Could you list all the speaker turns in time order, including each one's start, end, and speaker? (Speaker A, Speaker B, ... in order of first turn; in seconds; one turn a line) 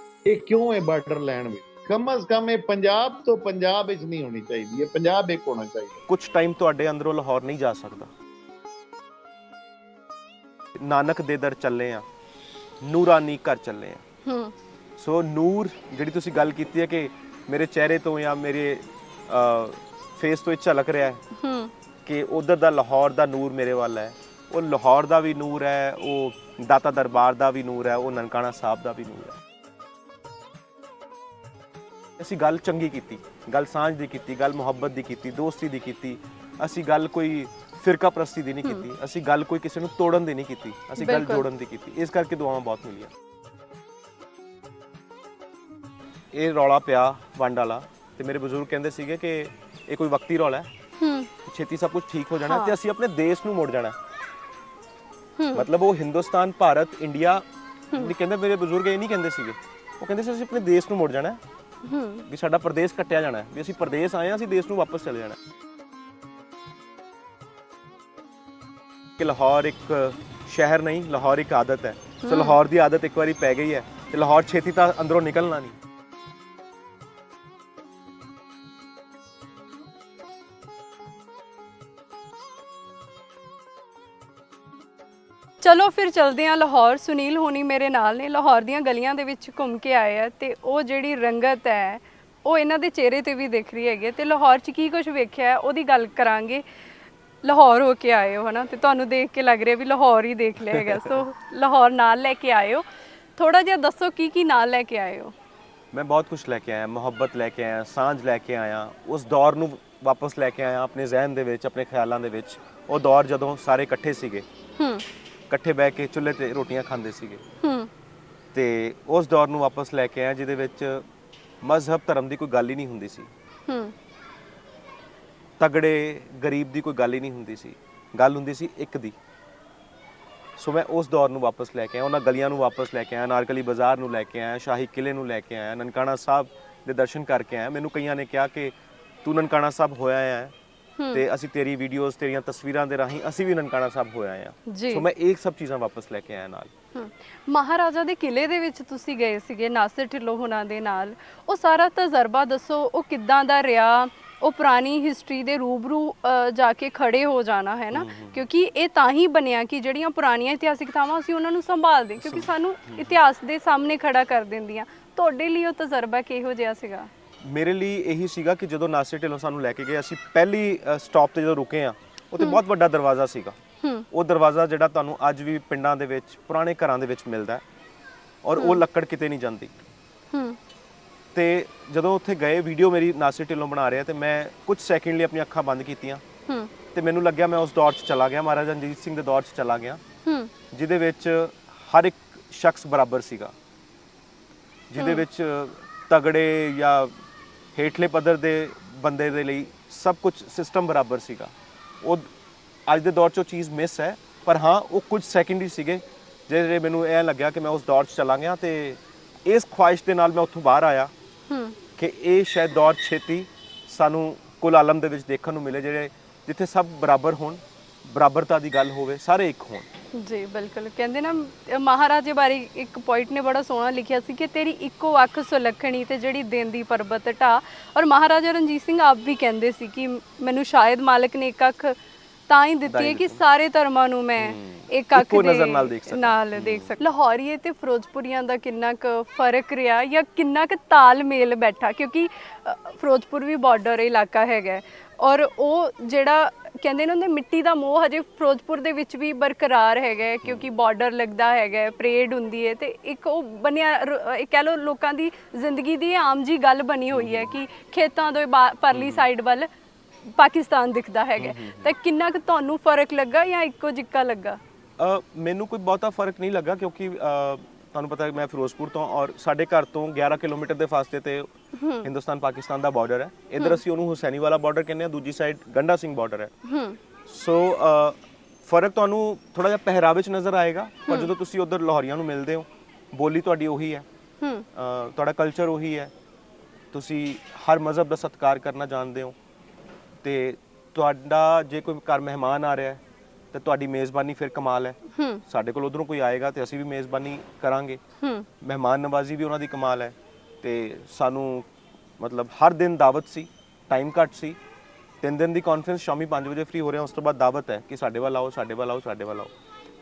Speaker A: 0.3-6.0
Speaker B: 6.1-8.1
Speaker B: 10.8-12.0
Speaker B: 12.8-14.0
Speaker C: 14.2-14.5
Speaker B: 15.0-21.2
Speaker C: 21.3-21.7
Speaker B: 22.0-29.4
Speaker B: 32.2-43.1
Speaker C: 41.0-41.4
Speaker B: 46.3-50.7
Speaker C: 51.0-51.3
Speaker B: 51.4-54.0
Speaker C: 52.4-52.7
Speaker C: 55.4-55.6
Speaker B: 55.5-61.4
Speaker C: 61.8-62.2
Speaker B: 62.3-65.4
Speaker B: 69.2-75.8
Speaker C: 72.2-72.6
Speaker C: 85.6-96.6
Speaker C: 97.4-102.8
Speaker C: 103.4-105.3
Speaker B: 105.9-114.4
Speaker C: 114.8-115.0
Speaker B: 115.5-117.4
Speaker C: 117.6-117.9
Speaker B: 118.5-121.0
Speaker B: 121.6-123.3
Speaker C: 123.7-123.9
Speaker B: 125.6-129.2
Speaker B: 130.6-140.5
Speaker B: 141.1-146.7
Speaker C: 144.7-145.0
Speaker C: 146.9-167.1
Speaker B: 157.9-158.4
Speaker B: 162.2-163.2
Speaker B: 167.4-173.6
Speaker C: 173.8-174.1
Speaker B: 174.1-177.6
Speaker B: 178.4-179.7
Speaker C: 180.3-180.6
Speaker B: 181.3-186.2
Speaker B: 186.9-190.0
Speaker C: 190.2-190.5
Speaker B: 190.7-193.5
Speaker B: 194.9-197.1
Speaker C: 195.0-195.2
Speaker B: 197.7-202.3
Speaker B: 202.9-211.1
Speaker C: 211.5-211.8
Speaker B: 212.0-219.9
Speaker C: 220.2-231.9
Speaker C: 232.5-259.7
Speaker B: 232.9-233.4
Speaker B: 234.4-236.9
Speaker B: 257.1-257.6
Speaker B: 258.9-259.3
Speaker C: 260.3-264.6
Speaker B: 261.4-261.9
Speaker B: 265.0-271.5
Speaker C: 271.8-272.1
Speaker B: 272.0-276.5
Speaker C: 276.6-277.0
Speaker B: 277.3-284.0
Speaker C: 284.4-284.6
Speaker B: 284.7-286.1
Speaker B: 286.9-289.3
Speaker B: 290.2-293.0
Speaker B: 293.5-298.0
Speaker C: 295.1-295.4
Speaker C: 298.2-298.5
Speaker B: 298.6-301.7
Speaker B: 302.2-304.6
Speaker B: 305.2-309.5